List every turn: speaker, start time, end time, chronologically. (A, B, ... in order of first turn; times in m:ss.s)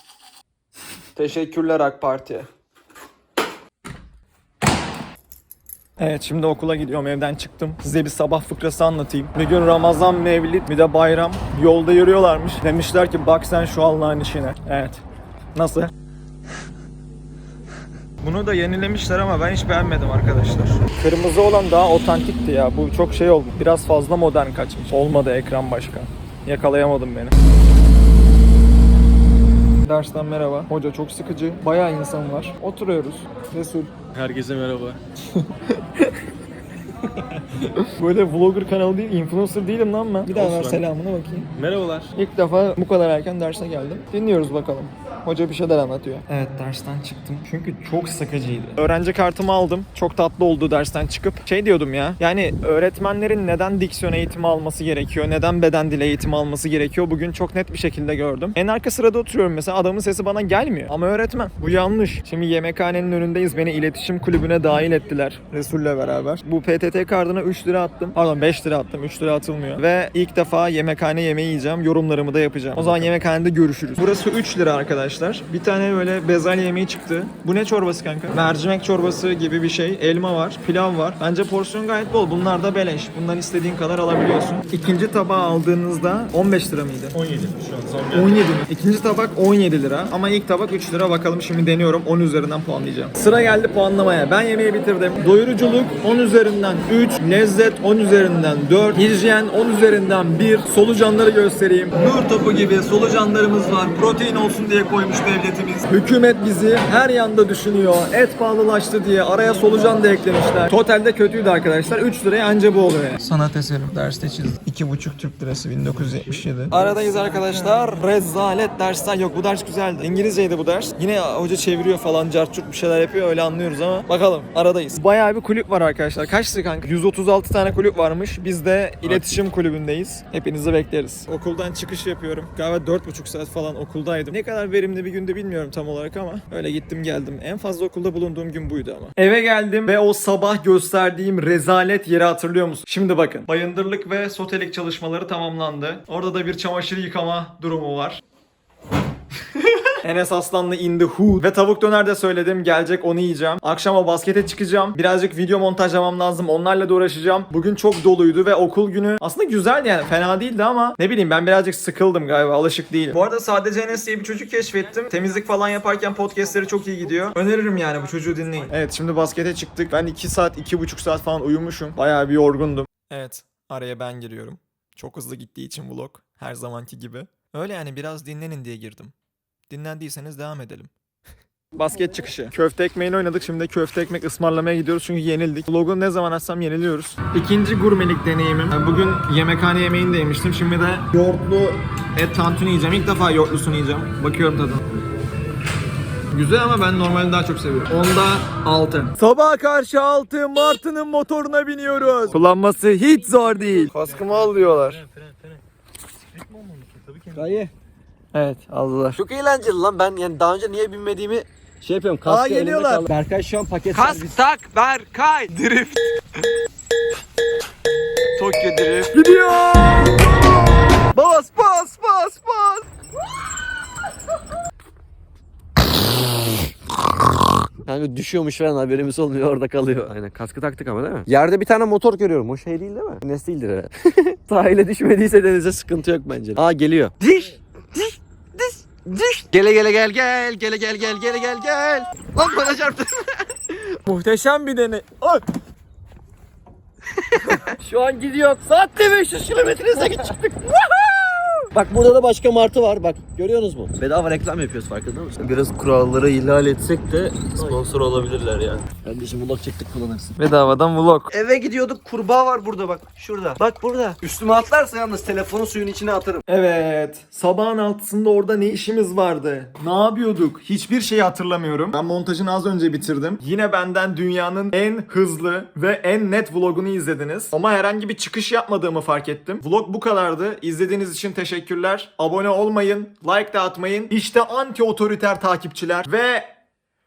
0:01.2-0:02.5 A
0:06.0-0:15.0 A
0:15.5-0:15.9 A
0:18.2-0:27.4 A
0:29.8-0:33.9 A
0:34.0-0:35.0 B
0:35.4-0:36.1 A
0:37.6-0:41.5 A
0:40.3-0:40.8 B
0:41.5-0:42.1 B
0:42.1-1:27.2 A
1:27.2-1:28.4 B
1:28.1-2:28.2 A
2:09.0-2:09.3 B
2:30.0-2:59.1 A
2:59.7-3:00.9 A
3:01.8-3:14.9 A
3:16.3-3:25.0 A
3:23.3-3:25.6 B
3:26.3-3:27.6 B
3:27.3-3:27.7 C
3:28.3-3:29.2 A
3:29.2-3:34.4 C
3:32.2-3:33.1 A
3:33.9-3:36.2 A
3:38.4-3:40.1 A
3:41.1-3:42.8 A
3:47.8-4:03.4 C
4:04.0-4:05.4 A
4:07.3-4:10.8 C
4:10.9-4:11.5 A
4:11.7-4:20.4 C
4:20.4-4:21.3 A
4:21.3-4:26.4 C
4:26.5-4:46.5 A